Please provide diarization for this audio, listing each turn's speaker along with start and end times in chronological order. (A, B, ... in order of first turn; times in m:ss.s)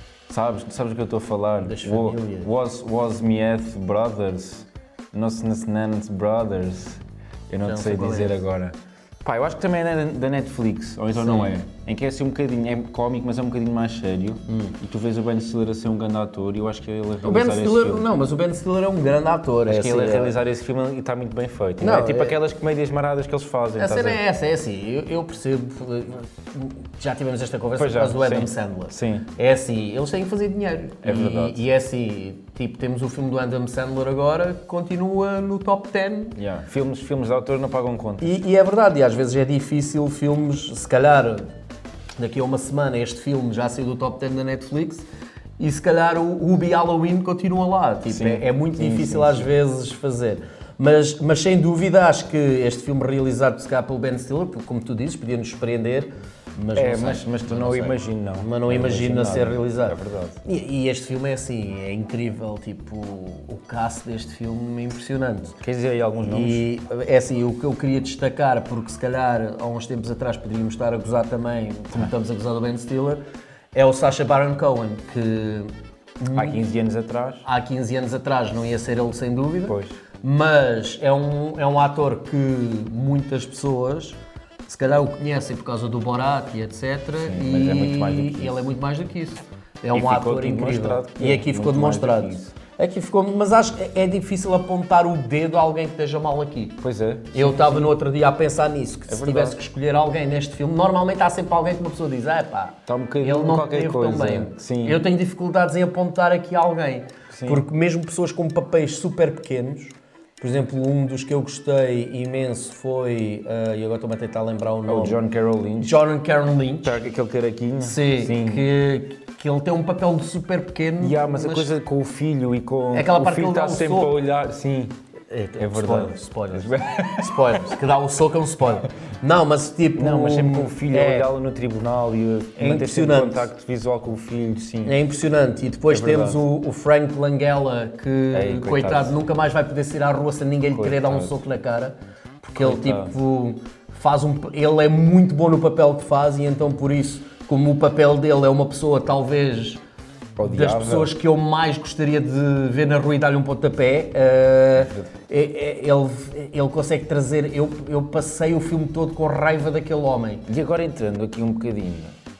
0:00.3-0:18.1 A
0:01.6-0:02.5 B
0:07.7-0:08.4 B
0:11.2-0:11.5 B
0:14.5-0:14.8 B
0:17.2-0:20.4 B
0:19.7-0:24.2 A
0:21.8-0:22.4 B
0:23.8-0:36.4 B
0:27.8-0:29.3 A
0:31.0-0:31.6 A
0:36.4-0:38.4 A
0:38.2-0:41.5 B
0:42.2-0:45.1 B
0:45.6-1:05.6 B
0:48.1-0:49.5 A
0:56.8-1:00.4 A
1:05.6-1:06.6 A
1:06.2-1:13.2 B
1:13.7-1:16.6 B
1:16.3-1:17.4 A
1:17.4-1:36.8 B
1:19.7-1:20.0 A
1:27.2-1:28.6 A
1:29.9-1:32.6 A
1:36.8-1:37.9 A
1:37.3-1:55.2 B
1:39.1-1:39.6 A
1:42.9-1:45.0 A
1:47.3-1:47.6 A
1:54.9-1:56.0 A
1:55.8-1:57.0 B
1:56.8-1:58.7 A
1:57.8-2:01.7 B
2:01.0-2:05.0 A
2:02.9-2:04.2 B
2:05.3-2:11.3 B
2:05.6-2:07.8 A
2:10.0-2:15.0 A
2:12.6-2:13.5 B
2:14.8-2:29.8 B
2:15.9-2:16.4 A
2:18.3-2:19.1 A
2:20.7-2:21.4 A
2:22.6-2:23.2 A
2:30.4-2:31.1 A
2:30.4-2:40.4 B
2:34.7-2:35.1 A
2:40.5-2:42.2 A